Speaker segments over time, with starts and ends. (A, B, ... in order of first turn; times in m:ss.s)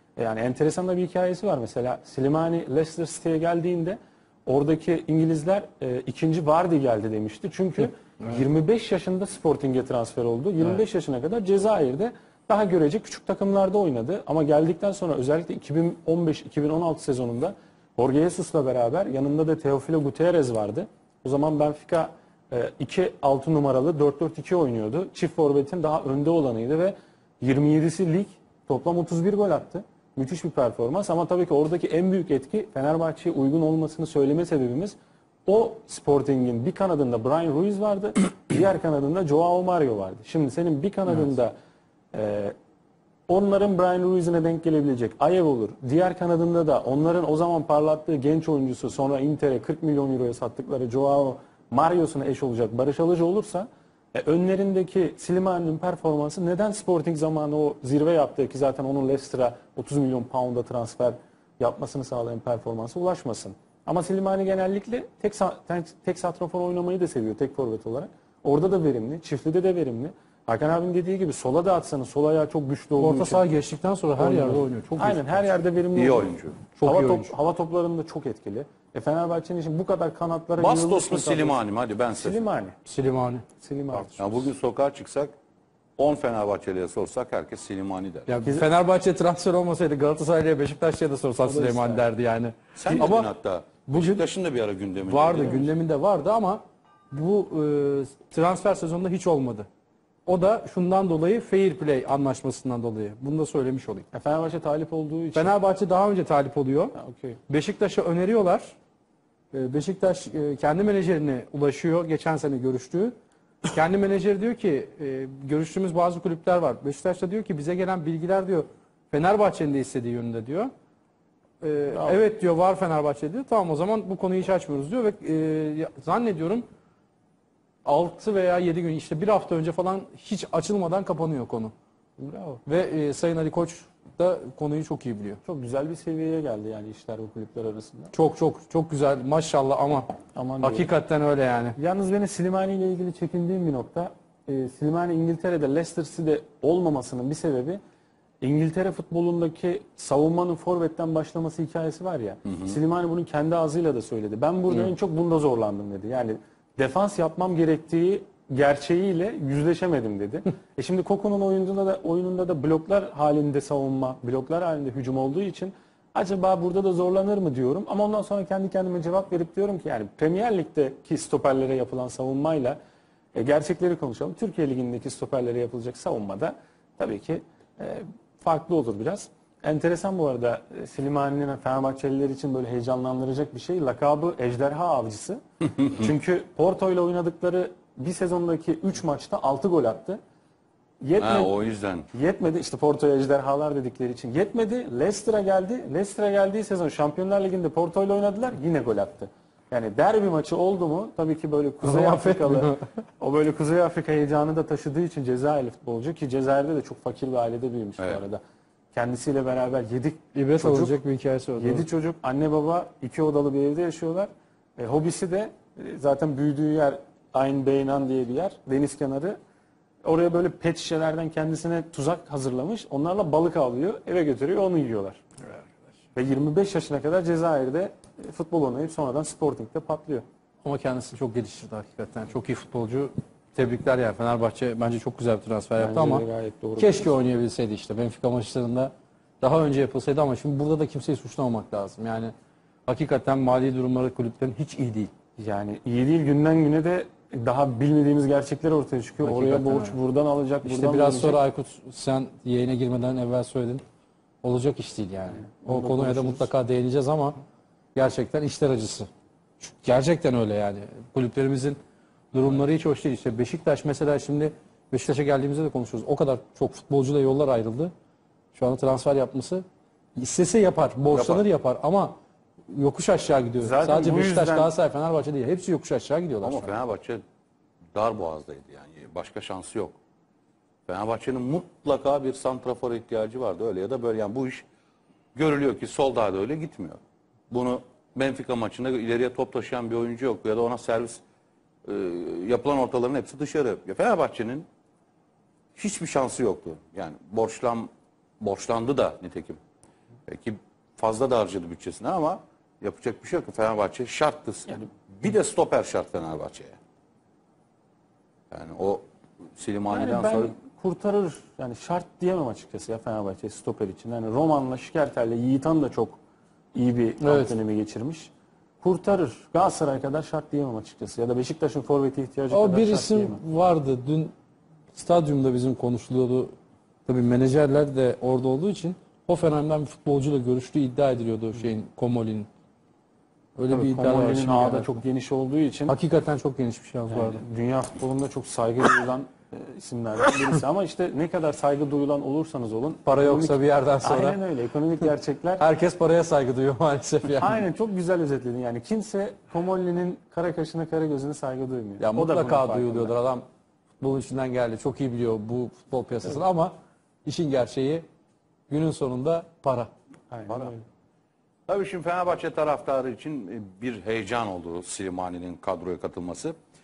0:00.2-0:41.5 A
0:42.1-0:42.5 A
0:43.3-1:13.4 A
1:13.0-1:15.4 B
1:14.2-1:16.3 A
1:16.0-1:16.6 C
1:16.8-1:17.3 B
1:16.8-1:21.6 A
1:20.6-1:22.4 C
1:22.2-1:22.8 A
1:22.8-1:23.4 B
1:23.6-1:24.4 A
1:24.2-1:25.3 C
1:26.0-1:28.3 C
1:28.3-1:33.3 B
1:31.5-1:32.1 A
1:32.8-1:35.7 C
1:33.9-1:34.2 B
1:35.0-1:39.7 B
1:40.3-1:44.1 B
1:44.1-1:45.5 A
1:45.3-1:47.0 B
1:47.0-1:47.4 A
1:47.5-1:48.7 B
1:49.5-1:53.1 B
1:53.7-2:00.7 B
2:01.6-2:06.7 B
2:01.9-2:02.2 A
2:07.8-2:11.7 B
2:12.2-2:12.6 A
2:12.7-2:15.4 B
2:15.4-2:18.1 A
2:18.1-2:21.8 B
2:20.4-2:20.9 A
2:21.8-2:27.8 A
2:28.4-2:52.8 A
2:53.3-3:10.2 A
3:11.0-3:11.5 A
3:11.2-3:12.1 C
3:12.1-3:28.4 A
3:21.8-3:22.8 B
3:28.9-3:31.0 A
3:30.3-3:31.8 B
3:31.6-3:39.4 A
3:40.0-3:45.2 A
3:46.2-3:50.2 A
3:50.6-3:56.3 B
3:55.8-3:57.1 A
3:56.8-4:02.3 B
4:02.9-4:05.1 B
4:05.4-4:11.4 A
4:09.2-4:10.0 B
4:10.6-4:13.8 B
4:14.4-4:17.4 B
4:15.5-4:16.5 A
4:18.0-4:19.1 B
4:19.6-4:21.8 B
4:22.3-4:27.9 B
4:28.6-4:29.6 B
4:30.2-4:32.2 B
4:31.1-4:31.4 C
4:32.7-4:36.7 B
4:33.6-4:34.7 A
4:36.4-4:37.2 C
4:38.0-4:40.0 C
4:40.9-4:44.7 C
4:45.4-4:47.0 C
4:47.5-4:51.2 C
4:51.8-4:54.7 C
4:55.8-4:57.9 C
4:58.4-4:59.6 C
5:00.3-5:06.8 C
5:08.5-5:09.0 C
5:09.6-5:10.6 C
5:09.9-5:16.2 A
5:16.7-5:18.3 A
5:17.2-5:17.5 B
5:18.8-5:23.4 A
5:22.5-5:24.3 B
5:24.9-5:26.5 B
5:27.1-5:32.5 B
5:33.6-5:35.0 B
5:33.7-5:36.0 A
5:35.9-5:37.4 B
5:37.1-5:45.6 A
5:43.1-5:44.4 B
5:45.6-5:47.6 B
5:47.4-5:53.1 A
5:52.0-5:53.4 B
5:54.0-5:56.7 B
5:57.2-5:58.0 B
5:58.7-5:59.9 B
6:00.3-6:00.8 A
6:01.7-6:06.6 C